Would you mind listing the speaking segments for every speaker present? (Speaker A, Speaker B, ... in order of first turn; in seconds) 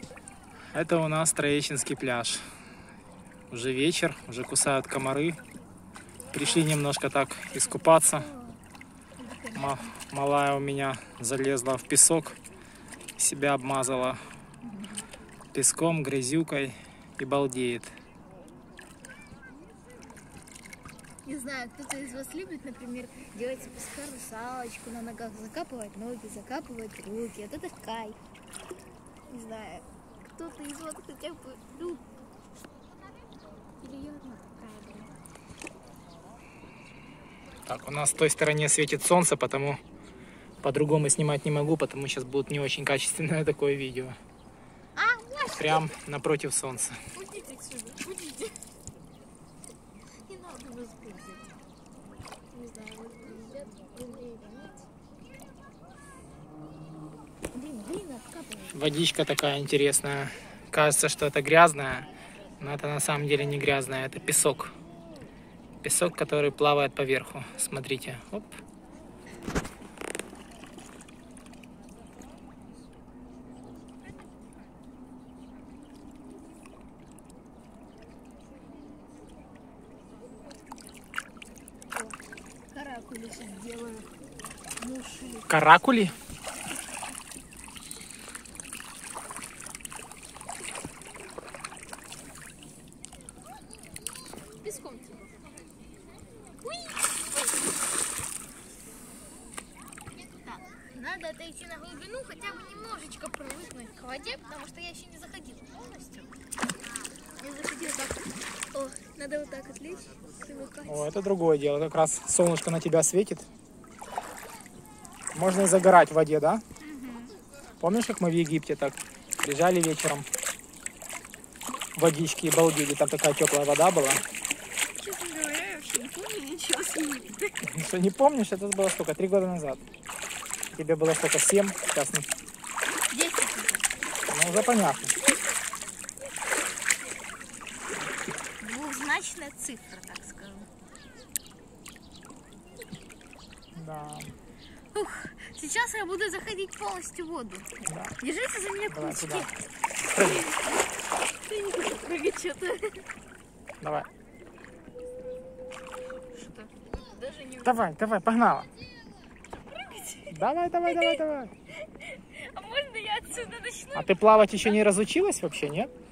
Speaker A: 0.7-2.4, 3.5-5.4, 6.3-8.3, 9.6-12.4, 13.2-14.2, 15.5-17.9, 37.7-39.8, 40.6-44.2, 45.6-47.0, 58.7-62.1, 62.6-64.7, 65.8-68.5, 85.5-86.2, 110.8-113.5, 115.3-116.6, 117.8-120.3, 122.0-124.2, 127.6-129.8, 130.8-132.3, 134.3-135.2, 143.8-144.3, 147.9-148.2, 148.9-149.5, 150.1-150.5, 153.8-154.1, 157.7-158.7, 160.3-161.5, 163.9-165.9
Speaker B: 7.7-8.6, 9.2-9.9, 14.6-15.1, 21.2-28.2, 29.3-32.0, 33.8-35.1, 45.0-45.9, 47.1-48.5, 50.3-51.5, 52.5-54.9, 57.5-58.8, 82.7-84.1, 84.8-85.7, 94.6-95.3, 96.6-97.8, 100.3-106.4, 107.4-111.1, 116.8-117.4, 125.0-127.6, 133.1-133.9, 138.6-140.7, 144.9-147.7, 148.2-149.5, 150.2-150.6, 151.4-153.1, 156.3-157.9, 159.4-161.2, 161.9-164.9